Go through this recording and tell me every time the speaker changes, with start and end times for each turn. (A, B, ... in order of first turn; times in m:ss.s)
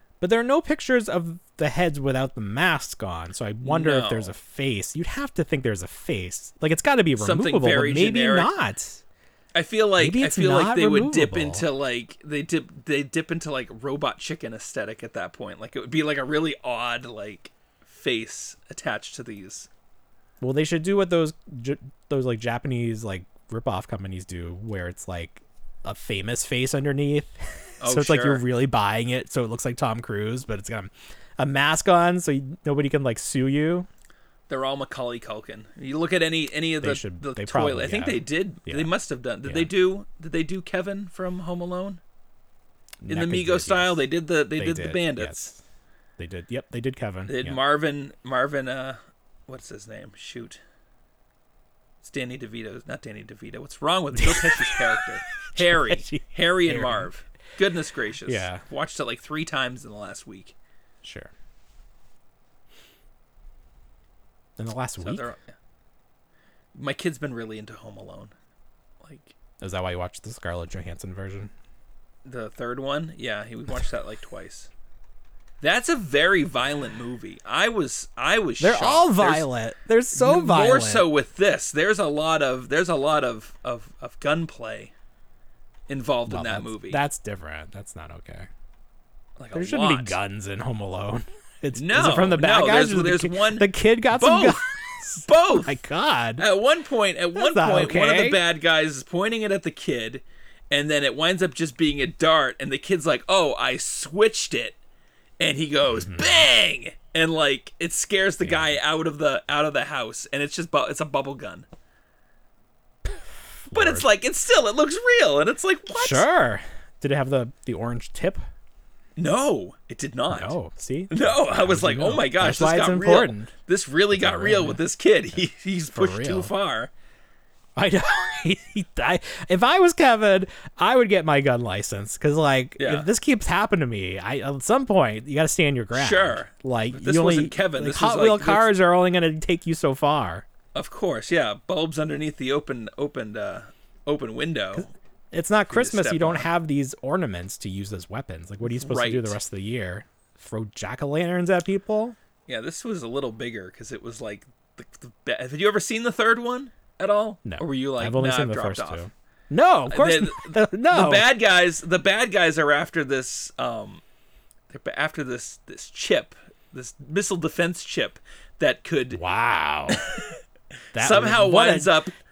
0:00.2-0:09.0 A
0:03.6-0:04.3 B
0:07.2-0:08.5 B
0:09.5-0:19.7 B
0:10.0-0:11.6 A
0:20.4-0:33.9 A
0:27.8-0:28.4 B
0:34.5-0:42.0 B
0:36.8-0:38.9 A
0:39.4-0:39.7 A
0:43.0-0:45.5 B
0:43.0-0:44.0 A
0:44.5-0:45.6 A
0:46.2-0:47.6 A
0:47.3-0:50.6 B
0:52.0-1:00.5 B
0:54.2-0:54.8 A
0:55.5-0:57.1 A
0:58.2-0:58.6 A
1:01.0-1:01.3 A
1:04.6-1:05.3 A
1:05.0-1:05.6 B
1:06.7-1:08.3 B
1:09.0-1:09.3 B
1:09.6-1:11.5 A
1:12.2-1:14.7 B
1:15.6-1:19.5 B
1:18.6-1:21.1 A
1:20.1-1:24.9 B
1:25.9-1:27.0 B
1:26.3-1:28.5 A
1:29.4-1:30.2 B
1:29.5-1:36.4 A
1:31.7-1:34.7 B
1:35.2-1:35.8 B
1:36.4-1:44.8 B
1:37.3-1:38.4 A
1:45.4-1:51.7 B
1:45.9-1:46.5 A
1:48.4-1:48.8 A
1:53.7-1:54.1 A
1:53.7-1:56.3 B
1:55.9-1:58.4 A
1:59.2-2:00.6 B
2:00.3-2:03.5 A
2:01.1-2:06.9 B
2:04.1-2:04.8 A
2:05.9-2:06.5 A
2:07.8-2:20.4 A
2:12.8-2:13.1 B
2:15.9-2:18.7 B
2:20.7-2:24.9 B
2:24.7-2:32.2 A
2:25.7-2:26.5 B
2:28.6-2:29.4 B
2:32.5-2:39.0 B
2:37.4-2:41.2 A
2:39.9-2:44.0 B
2:44.7-2:49.2 B
2:49.1-2:50.2 A
2:49.9-2:50.3 B
2:50.9-2:51.9 A
2:50.9-2:52.1 B